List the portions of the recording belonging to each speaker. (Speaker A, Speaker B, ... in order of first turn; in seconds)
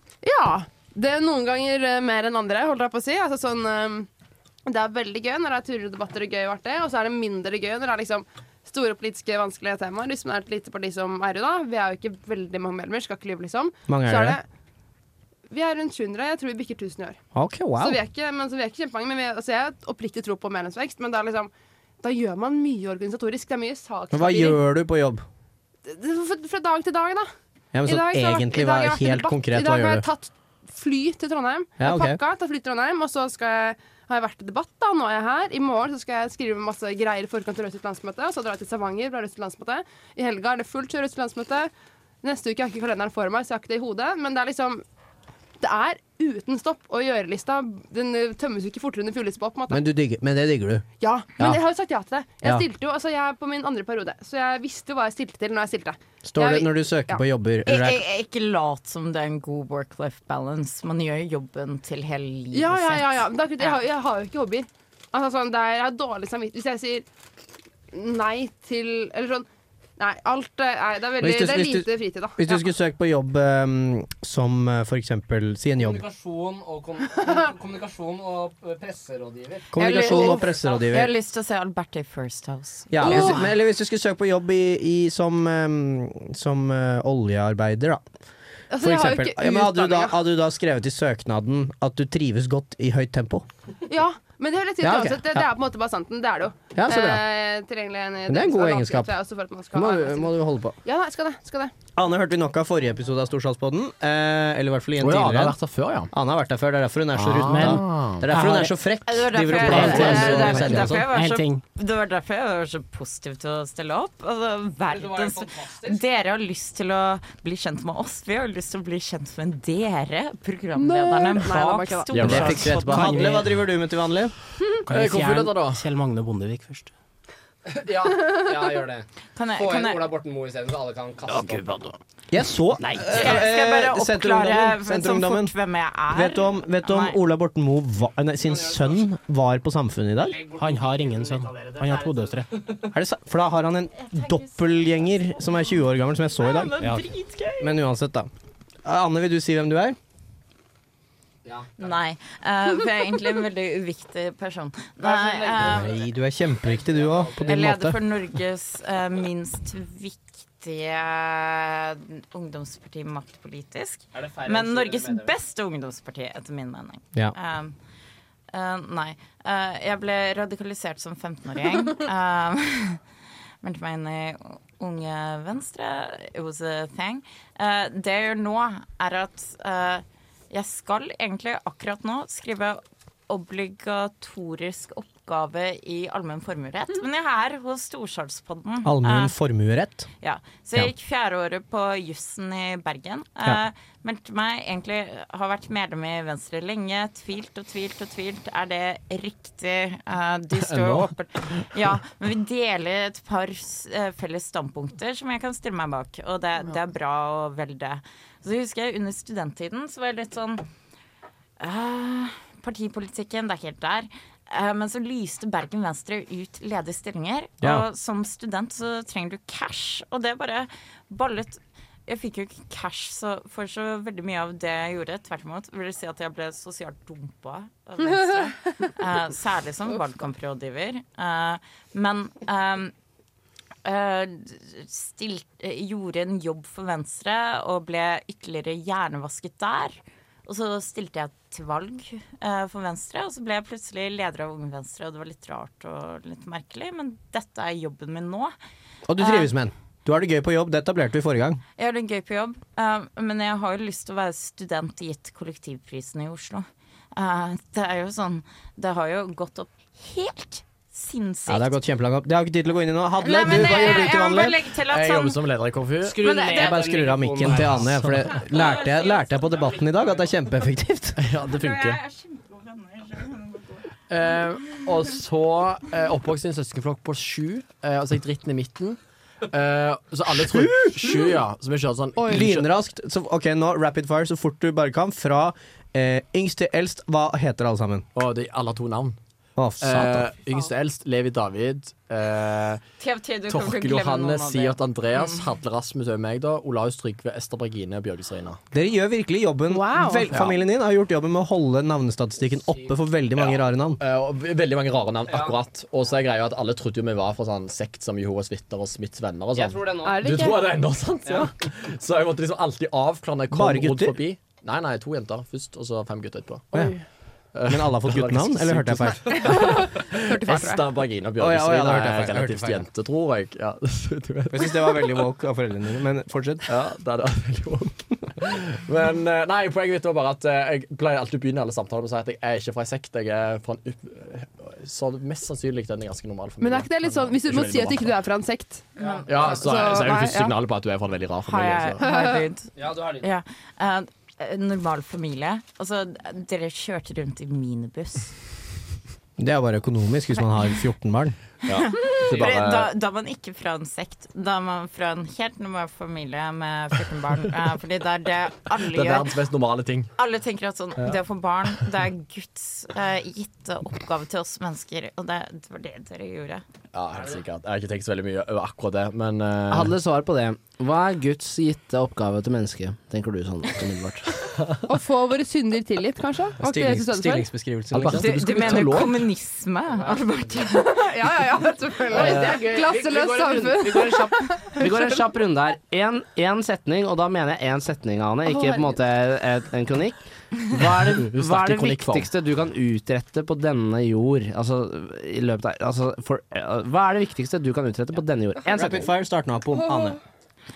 Speaker A: 0.2-4.1, 4.7-14.4, 15.5-17.2, 17.8-24.6, 25.8-27.3, 27.8-41.7, 42.2-44.8, 45.6-49.8, 51.0-57.2, 62.5-67.0, 67.9-69.5, 70.0-72.5, 79.8-80.5, 83.0-83.4, 88.7-90.2, 93.9-100.3, 100.8-101.7, 120.8-122.3, 299.7-300.3, 310.0-310.7, 319.2-320.8, 336.6-340.5, 342.0-342.4, 374.9-377.5, 380.9-385.1, 388.4-388.9
Speaker B: 13.9-14.4, 17.3-18.0, 24.1-25.2, 27.7-30.0, 31.8-32.2, 49.7-50.9, 56.2-58.0, 71.2-76.0, 79.7-81.1, 82.9-88.0, 88.8-93.4, 94.8-95.5, 96.7-97.2, 98.3-99.1, 99.7-100.8, 102.0-105.6, 106.1-111.1, 122.2-124.3, 132.3-135.5, 136.1-140.4, 142.9-146.8, 147.6-148.3, 148.8-150.0, 155.6-158.0, 188.8-190.1, 249.1-251.6, 261.5-264.6, 266.3-271.2, 280.3-281.4, 282.3-288.1, 289.6-290.3, 298.7-304.0, 313.5-314.2, 317.6-319.6, 321.4-322.8, 324.5-326.7, 349.4-351.4, 376.6-378.3, 398.7-400.2
Speaker C: 57.6-63.8, 79.8-83.4, 109.0-123.1, 129.3-130.1, 133.1-137.2, 144.1-145.4, 146.4-147.7, 151.8-156.0, 157.4-167.8, 168.5-173.0, 173.6-189.3, 190.2-210.6, 211.6-232.9, 233.8-248.5, 249.2-249.5, 251.8-261.8, 263.2-265.4, 266.3-266.8, 268.3-269.6, 271.5-273.9, 293.0-295.4, 341.4-348.3, 351.9-359.3, 360.2-366.6, 378.1-381.1
Speaker D: 75.8-79.7, 80.5-80.8, 114.9-116.0, 127.7-131.8, 138.4-139.0, 140.2-142.9, 151.4-151.9, 155.0-156.0, 156.6-157.5, 164.1-165.3, 266.0-267.9, 305.3-305.6, 309.5-310.3, 311.2-311.5, 339.0-339.5, 342.7-343.3, 367.1-367.4, 369.7-374.5, 379.9-380.7, 382.1-399.1
Speaker E: 105.0-106.1, 107.1-108.3, 110.0-110.9, 122.1-122.8, 124.9-125.8, 200.6-201.7, 264.9-266.2, 267.6-267.9, 271.2-272.0, 274.1-282.7, 288.1-289.1, 289.8-292.8, 293.5-298.6, 303.4-316.7, 317.5-325.0, 326.7-338.1, 339.3-342.0, 351.6-352.9, 358.9-360.1, 366.9-369.9, 377.9-379.3, 390.7-392.3
Speaker F: 107.5-108.8, 109.5-111.6, 122.2-123.5, 124.9-126.9, 131.3-131.9, 132.8-133.2, 140.5-142.5